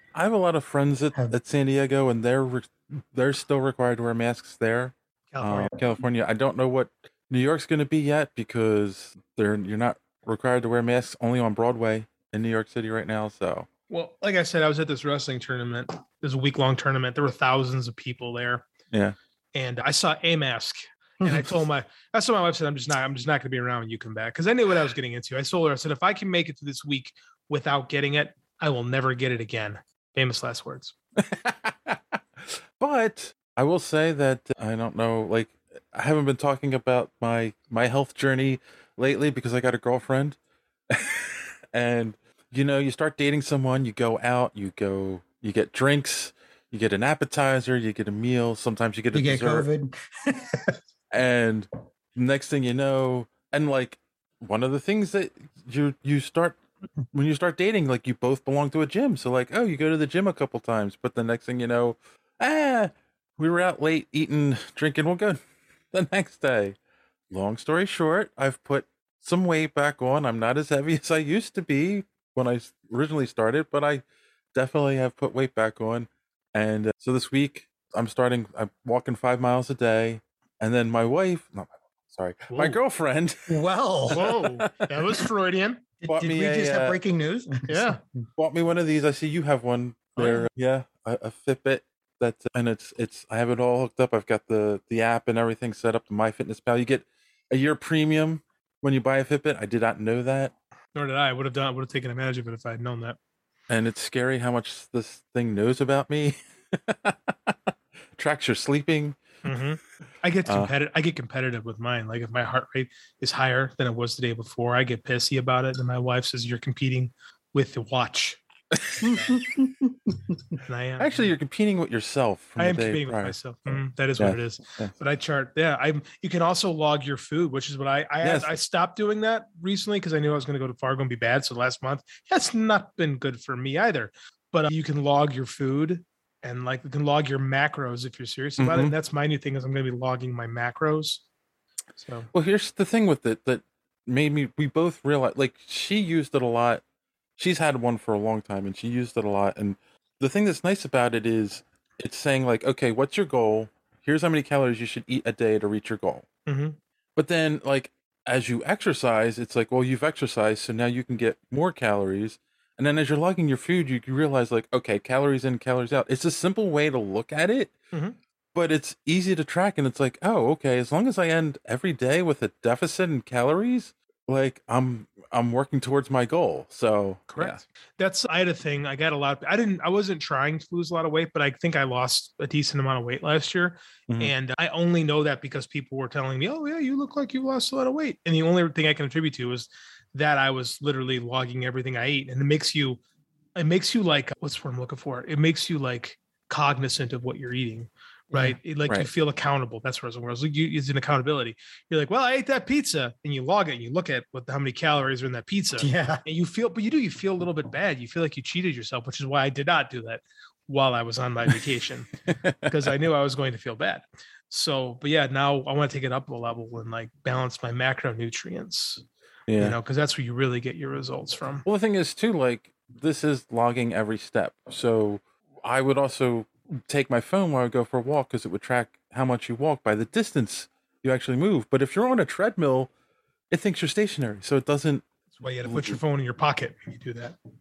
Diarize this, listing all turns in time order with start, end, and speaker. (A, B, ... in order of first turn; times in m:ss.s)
0:00.1-0:13.7 A
0:05.3-0:05.7 B
0:13.9-0:18.7 C
0:19.5-0:30.9 C
0:21.2-0:21.5 B
0:31.2-0:32.2 A
0:32.8-0:40.4 A
0:40.9-0:49.7 A
0:49.1-0:50.8 B
0:51.1-0:56.6 A
0:57.1-1:05.4 A
1:05.9-1:06.8 A
1:07.3-1:14.0 A
1:14.5-1:24.9 A
1:22.5-1:22.8 C
1:23.5-1:24.3 B
1:24.1-1:25.8 C
1:26.0-1:28.2 B
1:26.1-1:27.0 A
1:27.7-1:28.0 C
1:28.4-1:40.5 A
1:30.2-1:30.5 C
1:41.0-1:43.2 C
1:43.7-1:47.6 A
1:48.2-1:49.2 A
1:49.4-1:58.4 C
1:50.5-1:50.7 A
1:58.8-1:59.1 A
1:59.0-2:00.6 B
2:00.7-2:01.3 C
2:01.0-2:03.4 A
2:02.6-2:21.2 C
2:04.2-2:04.9 A
2:08.2-2:08.5 A
2:18.6-2:18.9 A
2:22.0-2:22.3 C
2:22.3-2:26.8 A
2:27.4-2:36.2 A
2:36.5-2:36.8 C
2:37.2-2:47.7 A
2:47.9-2:48.2 C
2:48.6-2:57.6 A
2:57.3-3:13.0 C
3:13.6-3:32.1 C
3:18.3-3:18.6 B
3:25.8-3:26.2 B
3:32.4-3:32.7 A
3:32.7-3:39.0 C
3:39.5-3:39.8 A
3:39.6-3:41.6 C
3:41.6-3:52.9 A
3:53.5-3:55.0 A
3:55.4-3:57.4 C
3:55.7-3:56.0 A